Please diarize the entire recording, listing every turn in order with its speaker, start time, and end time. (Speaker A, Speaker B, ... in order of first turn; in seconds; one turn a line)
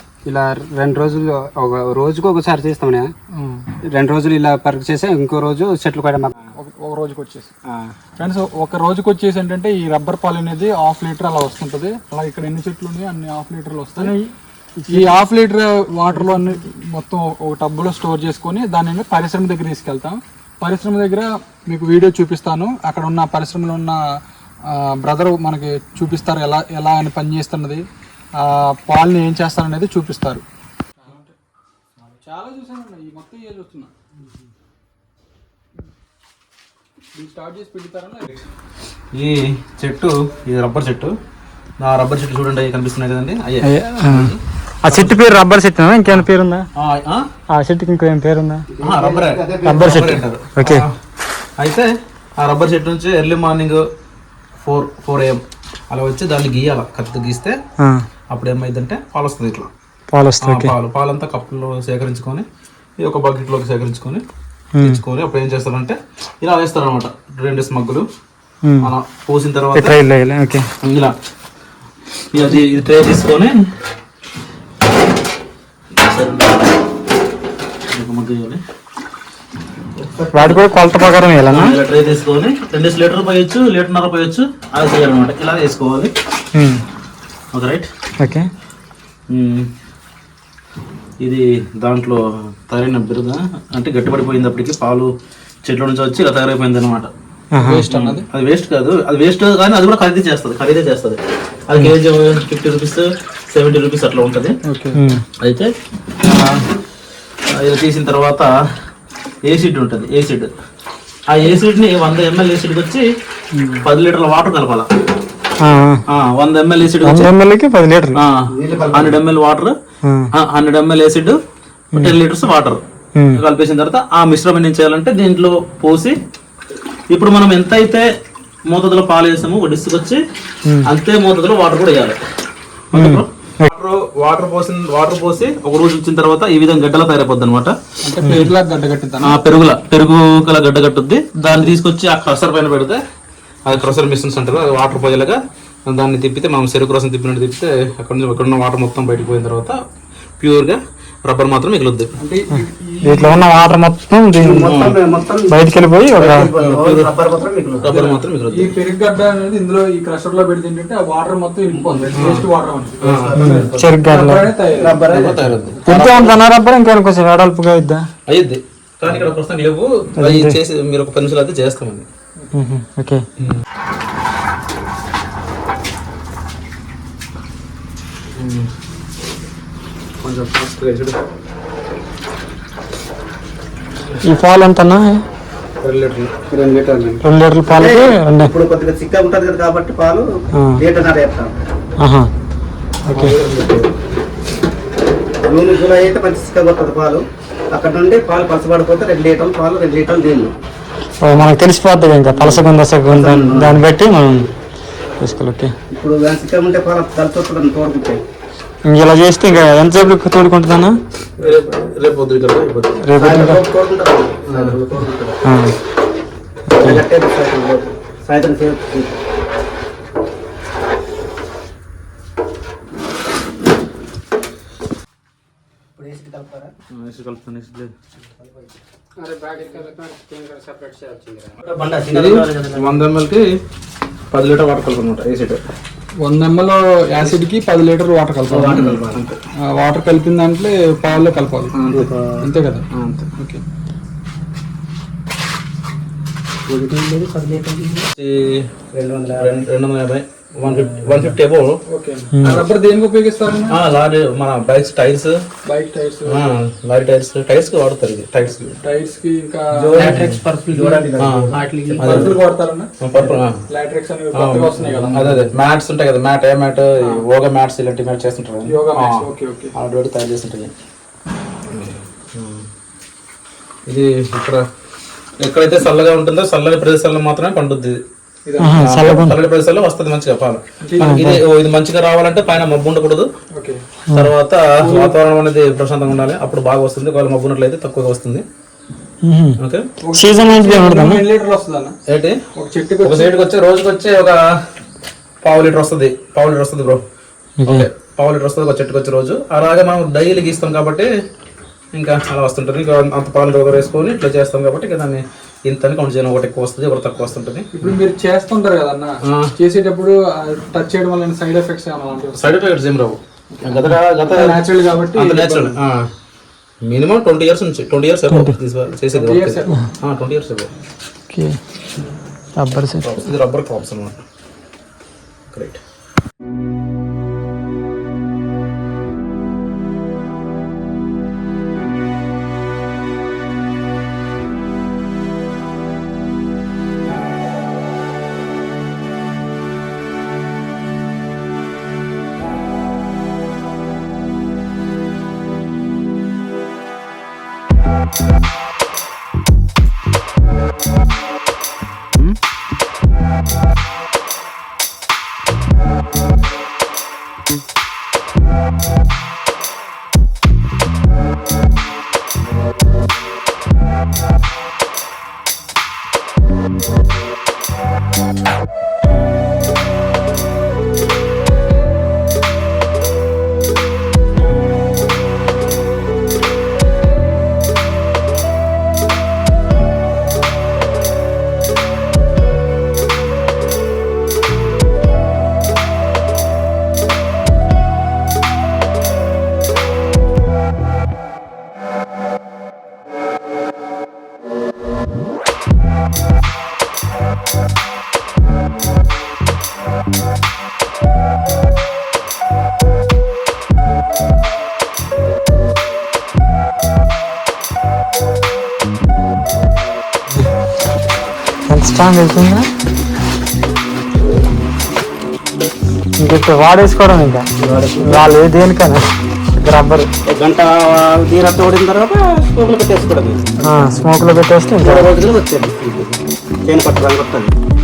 Speaker A: 0.3-3.1
Speaker B: 3.3-3.7
Speaker A: 3.9-6.5
Speaker B: 6.5-7.5
Speaker A: 7.7-7.9
Speaker B: 8.2-14.2
Speaker C: 14.0-15.2
Speaker B: 14.9-24.0
Speaker B: 24.7-27.9
Speaker B: 28.4-30.4
Speaker B: 31.0-31.4
Speaker B: 32.0-33.9
Speaker B: 37.1-38.4
Speaker D: 39.1-41.1
Speaker D: 41.8-45.4
Speaker C: 43.6-46.7
Speaker D: 46.8-47.2
Speaker C: 47.5-48.7
Speaker E: 48.8-49.9
Speaker D: 48.8-50.9
Speaker C: 49.6-50.9
Speaker D: 51.6-53.9
Speaker D: 54.6-57.6
Speaker D: 58.3-59.7
Speaker C: 60.1-60.7
Speaker D: 60.4-62.5
Speaker D: 63.0-64.2
Speaker C: 64.8-65.0
Speaker D: 64.8-68.0
Speaker D: 68.8-70.0
Speaker C: 69.8-70.7
Speaker D: 70.8-71.1
Speaker D: 72.3-73.5
Speaker D: 76.0-76.7
Speaker D: 77.9-78.6
Speaker E: 80.0-80.5
Speaker C: 80.3-81.8
Speaker D: 81.5-86.1
Speaker C: 86.5-86.8
Speaker D: 87.5-87.9
Speaker C: 88.2-88.5
Speaker D: 89.3-89.7
Speaker D: 91.2-95.1
Speaker D: 95.6-97.1
Speaker C: 97.5-97.8
Speaker B: 97.6-98.3
Speaker D: 97.9-104.5
Speaker B: 104.7-105.0
Speaker C: 104.9-105.2
Speaker D: 105.4-105.7
Speaker B: 106.2-106.7
Speaker D: 107.5-108.5
Speaker D: 109.5-110.5
Speaker D: 111.3-113.0
Speaker B: 113.6-113.8
Speaker D: 113.8-114.9
Speaker C: 115.6-116.0
Speaker D: 116.1-117.3
Speaker C: 117.0-118.2
Speaker D: 118.2-119.7
Speaker E: 118.6-119.2
Speaker C: 120.0-120.3
Speaker D: 120.3-121.4
Speaker D: 122.0-122.8
Speaker D: 123.4-126.2
Speaker D: 127.1-128.1
Speaker D: 128.7-130.2
Speaker D: 130.9-132.2
Speaker D: 132.9-137.8
Speaker C: 132.9-133.7
Speaker B: 138.0-139.4
Speaker D: 139.2-143.0
Speaker D: 143.7-149.8
Speaker D: 150.4-152.1
Speaker B: 152.2-153.7
Speaker C: 152.5-154.8
Speaker E: 154.4-157.9
Speaker D: 154.7-155.0
Speaker C: 155.5-156.5
Speaker D: 156.4-157.1
Speaker D: 157.8-158.8
Speaker B: 157.8-163.0
Speaker E: 161.7-162.5
Speaker D: 162.1-162.5
Speaker D: 163.0-163.7
Speaker E: 163.0-163.9
Speaker C: 163.4-164.5
Speaker B: 164.0-165.2
Speaker E: 164.7-166.1
Speaker D: 165.0-166.4
Speaker C: 165.8-168.1
Speaker D: 168.3-172.1
Speaker C: 170.2-170.6
Speaker C: 172.5-173.3
Speaker D: 178.4-178.7
Speaker D: 180.2-181.2
Speaker C: 184.2-185.2
Speaker D: 185.8-186.3
Speaker A: 186.5-187.2
Speaker C: 187.2-188.5
Speaker E: 187.7-191.5
Speaker C: 190.6-190.8
Speaker C: 192.0-192.3
Speaker C: 193.1-193.4
Speaker D: 193.1-193.9
Speaker E: 195.4-200.5
Speaker C: 201.2-204.5
Speaker E: 202.3-203.8
Speaker C: 205.2-205.7
Speaker E: 205.9-208.2
Speaker C: 208.9-211.0
Speaker E: 211.4-211.7
Speaker D: 211.4-213.0
Speaker C: 213.0-213.6
Speaker E: 213.2-215.4
Speaker D: 214.5-214.8
Speaker C: 215.4-215.7
Speaker C: 216.7-217.0
Speaker E: 216.8-219.2
Speaker E: 226.0-226.7
Speaker D: 226.9-227.9
Speaker E: 228.2-228.8
Speaker A: 229.2-231.6
Speaker E: 231.6-233.1
Speaker D: 232.0-233.5
Speaker D: 234.3-235.6
Speaker B: 236.2-239.0
Speaker D: 237.2-237.4
Speaker D: 238.5-239.4
Speaker E: 238.7-239.2
Speaker B: 239.6-241.8
Speaker D: 241.7-242.1
Speaker E: 241.9-242.5
Speaker B: 242.4-243.6
Speaker D: 242.9-243.3
Speaker E: 246.7-248.1
Speaker D: 248.2-248.7
Speaker E: 248.9-249.6
Speaker D: 249.3-251.8
Speaker E: 250.6-251.3
Speaker B: 251.9-253.8
Speaker C: 252.3-252.7
Speaker D: 253.7-255.4
Speaker B: 255.7-256.5
Speaker D: 256.3-258.8
Speaker B: 258.8-260.3
Speaker E: 259.8-262.4
Speaker D: 260.0-262.4
Speaker B: 261.5-262.9
Speaker D: 263.0-263.6
Speaker B: 263.7-265.5
Speaker D: 264.3-270.7
Speaker B: 268.7-269.7
Speaker D: 271.7-272.7
Speaker D: 273.9-274.6
Speaker D: 275.4-278.0
Speaker B: 278.5-279.2
Speaker C: 278.6-279.4
Speaker D: 278.8-283.3
Speaker B: 280.8-281.2
Speaker C: 281.0-281.4
Speaker B: 283.5-283.8
Speaker D: 284.1-288.4
Speaker B: 284.8-285.1
Speaker C: 289.2-289.6
Speaker D: 289.6-289.9
Speaker B: 290.0-291.9
Speaker C: 290.1-291.2
Speaker D: 292.1-292.4
Speaker B: 292.6-293.3
Speaker D: 293.0-294.4
Speaker D: 295.4-297.0
Speaker C: 297.6-297.9
Speaker D: 297.7-301.1
Speaker D: 301.9-307.9
Speaker B: 307.7-312.6
Speaker D: 312.3-316.1
Speaker B: 313.5-315.8
Speaker D: 316.8-320.7
Speaker C: 318.3-318.6
Speaker B: 319.1-319.9
Speaker C: 321.3-321.6
Speaker C: 322.6-323.2
Speaker D: 323.0-324.2
Speaker D: 325.5-325.8
Speaker C: 411.7-412.7
Speaker C: 416.2-417.5
Speaker D: 417.6-418.2
Speaker C: 418.0-420.1
Speaker D: 420.4-423.6
Speaker E: 420.4-421.6
Speaker C: 423.6-425.1
Speaker E: 424.8-426.0
Speaker D: 425.9-426.2
Speaker E: 426.6-427.5